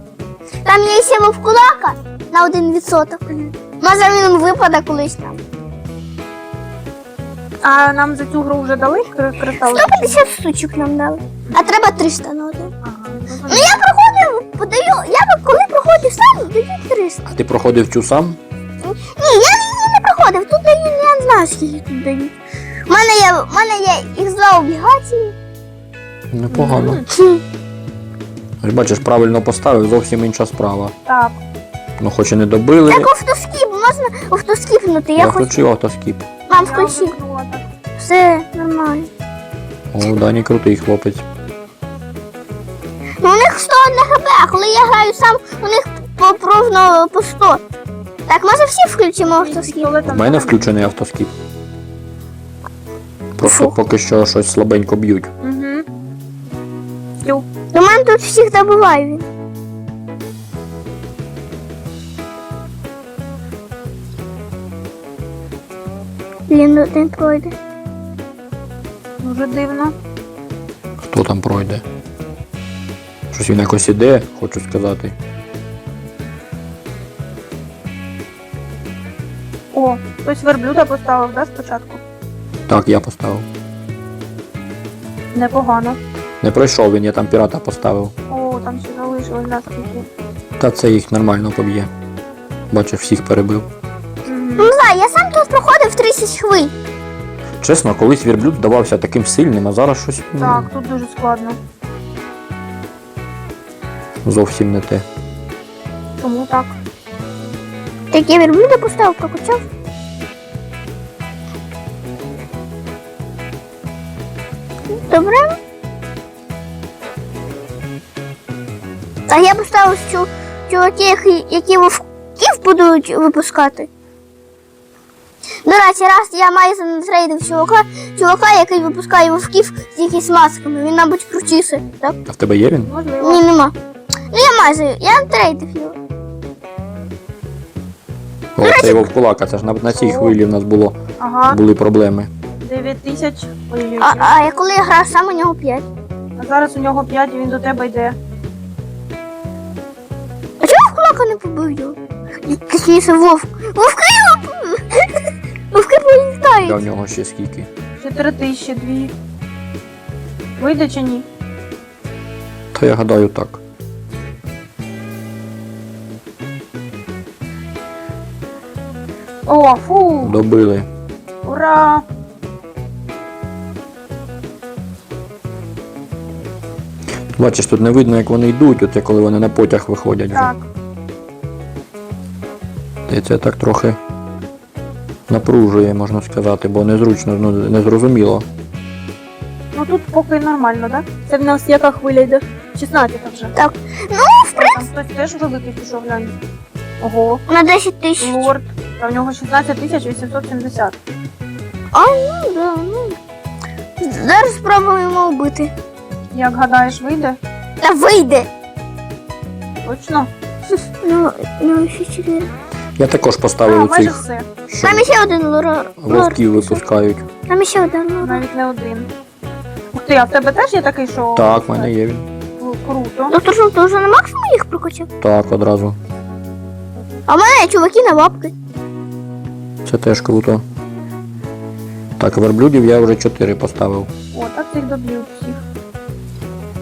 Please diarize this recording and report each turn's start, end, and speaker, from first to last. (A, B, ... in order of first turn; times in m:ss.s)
0:00.6-0:03.2 A
0:03.8-0:05.4 A
0:07.6-0:10.2 B
0:09.7-0:12.7 A
0:12.8-0:13.8 B
0:13.5-0:17.3 A
0:17.3-0:18.4 C
0:18.8-0:22.3 A
0:22.9-0:25.3 A
0:26.3-0:27.0 C
0:26.5-0:27.0 B
0:27.1-0:27.4 A
0:28.6-0:30.9 C
0:31.1-0:31.4 B
0:32.0-0:33.1 C
0:32.9-0:35.5 A
0:35.2-0:36.3 C
0:36.5-0:37.1 A
0:36.5-0:37.7 B
0:38.0-0:39.1 A
0:39.9-0:41.2 C
0:43.2-0:47.6 A
0:48.3-0:49.9 A
0:49.3-0:50.8 B
0:50.1-0:51.4 C
0:53.4-0:55.3 C
0:53.4-0:53.8 A
0:55.4-0:55.9 B
0:57.7-0:59.3 A
1:06.5-1:07.5 A
1:09.2-1:10.0 B
1:11.0-1:11.8 C
1:13.3-1:15.2 C
1:19.7-1:22.0 B
1:22.7-1:23.5 C
1:25.3-1:26.0 B
1:26.4-1:28.1 C
1:28.3-1:30.1 B
1:30.6-1:31.9 C
1:32.7-1:33.7 C
1:34.3-1:34.7 B
1:34.6-1:36.7 A
1:37.6-1:40.7 C
1:40.4-1:41.6 B
1:44.2-1:45.0 C
1:46.2-1:46.8 B
1:48.1-1:49.6 A
1:54.9-1:55.6 A
1:59.3-2:03.9 A
2:05.6-2:12.2 A
2:12.3-2:12.9 C
2:12.9-2:13.4 B
2:13.2-2:13.8 A
2:14.3-2:16.0 A
2:18.6-2:22.3 C
2:18.6-2:19.0 A
2:19.9-2:20.4 B
2:21.2-2:21.6 B
2:22.6-2:24.3 B
2:24.0-2:25.9 A
2:26.4-2:28.2 B
2:30.6-2:36.8 A
2:36.6-2:37.7 C
2:38.0-2:39.1 B
2:40.6-2:41.2 B
2:42.7-2:43.6 C
2:49.5-2:50.4 B
2:50.2-2:50.9 C
2:51.4-2:52.0 B
2:57.3-3:00.5 C
3:00.3-3:00.6 B
3:03.1-3:04.0 C
3:05.3-3:08.5 C
3:09.7-3:13.5 B
3:13.6-3:14.9 A
3:14.6-3:16.4 B
3:17.0-3:17.4 B
3:17.5-3:18.5 A
3:18.2-3:21.0 B
3:21.9-3:23.2 A
3:24.0-3:25.7 A
3:26.3-3:27.4 B
3:27.8-3:28.5 A
3:29.8-3:30.3 B
3:31.0-3:32.5 A
3:33.0-3:35.1 C
3:33.7-3:34.5 B
3:34.8-3:36.8 A
3:36.0-3:37.3 C
3:37.5-3:38.4 A
3:38.2-3:39.1 B
3:39.9-3:41.9 B
3:41.3-3:42.3 C
3:42.6-3:43.4 B
3:43.3-3:45.1 A
3:45.2-3:46.0 C
3:47.3-3:48.5 A
3:49.8-3:50.6 C
3:52.2-3:54.1 C
3:54.3-3:55.6 B